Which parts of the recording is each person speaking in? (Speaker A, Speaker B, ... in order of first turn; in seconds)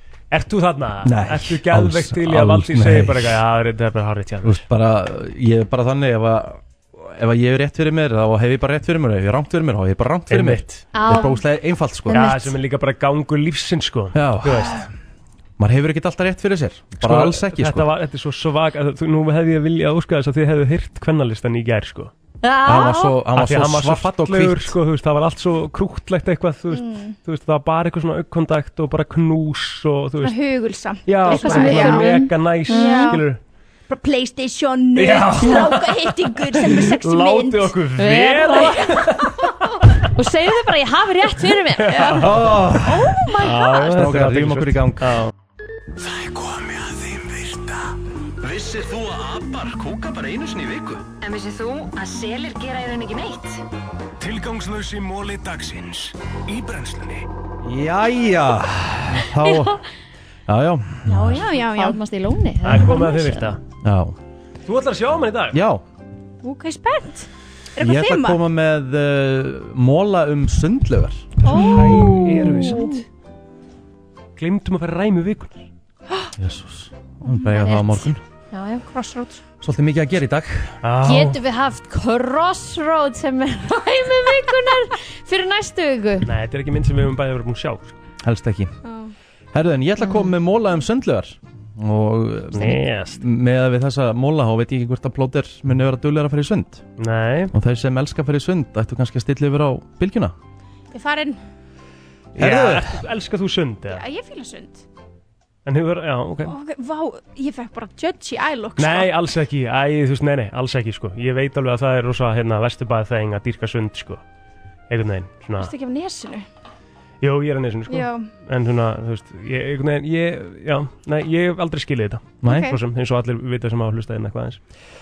Speaker A: 0.3-4.6, 10.3-11.0, 12.1-14.8, 17.0-22.1, 23.4-30.4, 31.1-33.4, 35.0-39.5, 41.8-42.6, 43.3-45.3, 62.6-63.6, 64.7-65.6, 71.5-73.0, 74.4-75.7, 80.8-81.4, 86.2-88.0, 92.5-93.2, 97.0-97.5, 102.3-104.0, 105.7-106.5, 108.8-114.2, 114.9-115.7, 117.2-124.6
Speaker B: 1.0-3.4, 4.4-12.3, 14.1-14.9, 15.6-17.9, 22.6-24.8, 42.2-43.2, 43.7-45.2, 57.6-59.8, 60.5-61.4, 63.8-64.2, 65.5-65.8, 67.8-72.2, 76.4-78.2, 79.6-80.8, 88.2-88.7, 89.5-96.8, 97.5-100.3, 102.4-103.0, 122.4-122.7
Speaker C: 10.9-11.4, 12.1-12.6, 22.4-23.2, 31.2-33.2, 38.0-39.2, 40.0-42.3, 43.1-43.7, 61.6-63.5, 71.5-73.0, 77.3-78.9, 81.0-86.3, 90.0-90.3
Speaker D: 26.7-27.1, 30.2-33.2, 33.9-37.8, 38.5-39.0, 43.0-43.6, 61.1-62.0, 66.4-68.4, 71.5-72.7, 78.9-79.4, 88.8-89.1, 100.9-101.4, 103.9-104.8, 106.4-109.1, 115.6-116.5, 117.9-118.3, 122.5-122.8
Speaker E: 46.0-51.1, 54.2-57.3
Speaker F: 51.2-53.5